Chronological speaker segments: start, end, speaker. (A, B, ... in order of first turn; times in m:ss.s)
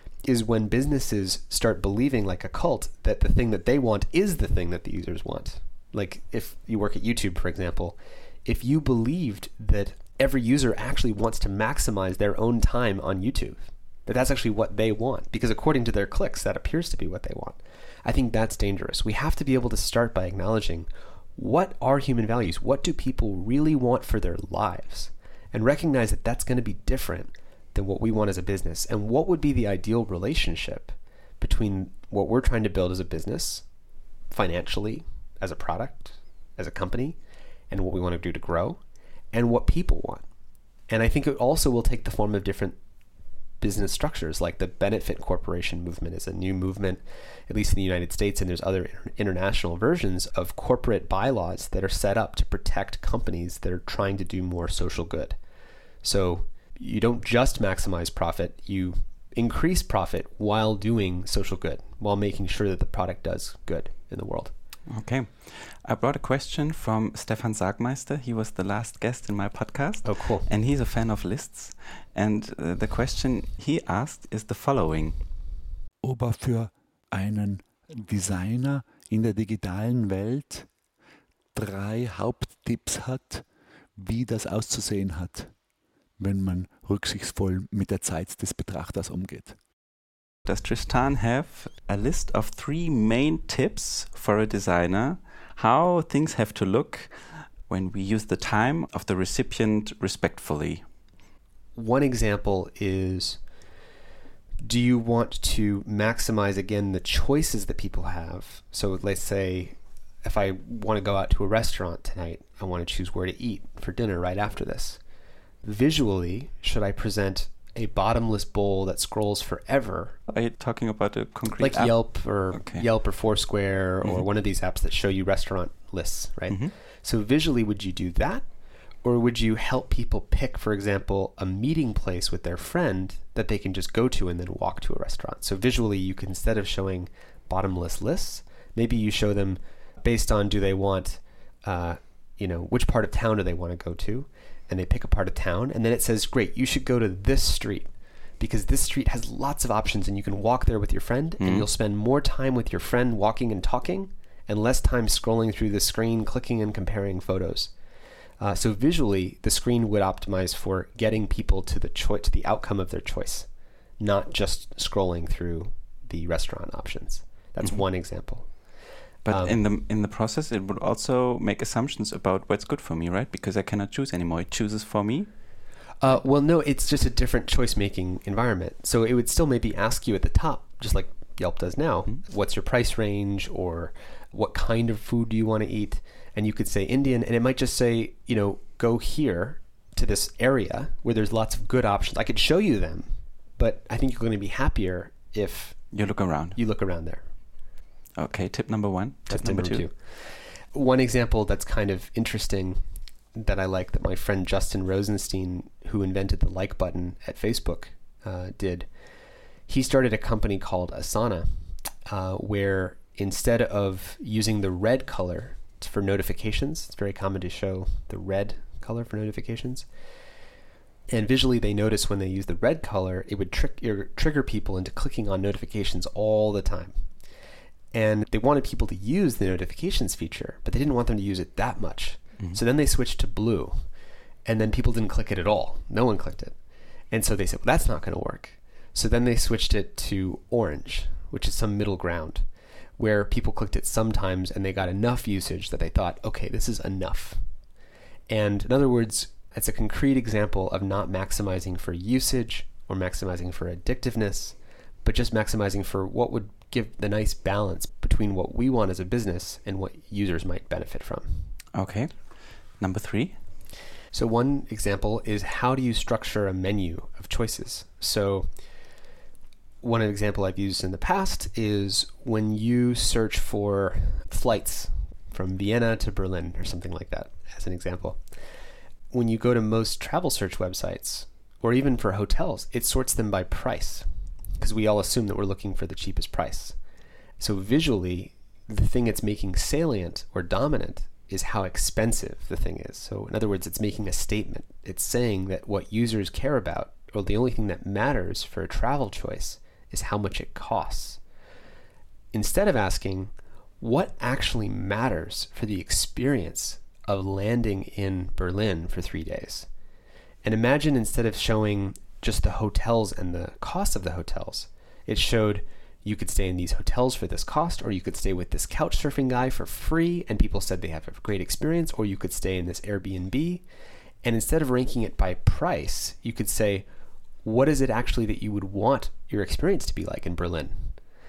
0:00.2-0:33.6 A
0:34.3-0:37.2 A
0:37.7-0:38.8 A
0:39.3-0:40.2 A
0:40.9-0:42.8 A
0:43.6-0:55.4 A
0:56.0-1:04.5 A
1:04.9-1:15.2 B
1:10.0-1:10.5 A
1:16.0-1:20.7 C
1:21.5-1:23.4 C
1:24.0-1:25.5 C
1:26.2-1:29.6 C
1:30.4-1:40.8 B
1:41.8-1:43.4 A
1:44.6-1:55.0 A
1:55.6-2:00.2 A
2:00.3-2:02.0 B
2:01.6-2:08.4 A
2:02.5-2:02.8 B
2:09.0-2:27.9 A
2:28.4-2:37.7 A
2:31.4-2:31.7 B
2:38.4-2:43.5 A
2:44.0-2:48.5 A
2:49.2-2:55.3 B
2:49.3-2:49.6 A
2:56.0-3:13.0 A
3:13.6-3:15.8 A
3:15.9-3:16.6 B
3:16.5-3:17.2 A
3:18.2-3:19.8 B
3:19.3-3:22.8 A
3:23.3-3:28.9 A
3:29.7-3:31.5 A
3:32.1-3:39.8 A
3:41.1-3:46.9 A
3:47.9-3:53.8 A
3:54.4-3:56.6 A
3:57.1-4:02.4 A
4:03.0-4:07.4 A
4:08.3-4:21.5 A
4:21.7-4:22.2 B
4:22.8-4:23.4 B
4:24.1-4:28.5 A
4:29.8-4:38.2 A
4:39.1-4:44.0 A
4:44.6-4:46.7 A
4:47.4-5:01.2 A
5:02.3-5:09.7 A
5:10.4-5:23.6 A
5:24.2-5:26.8 A
5:27.4-5:30.8 A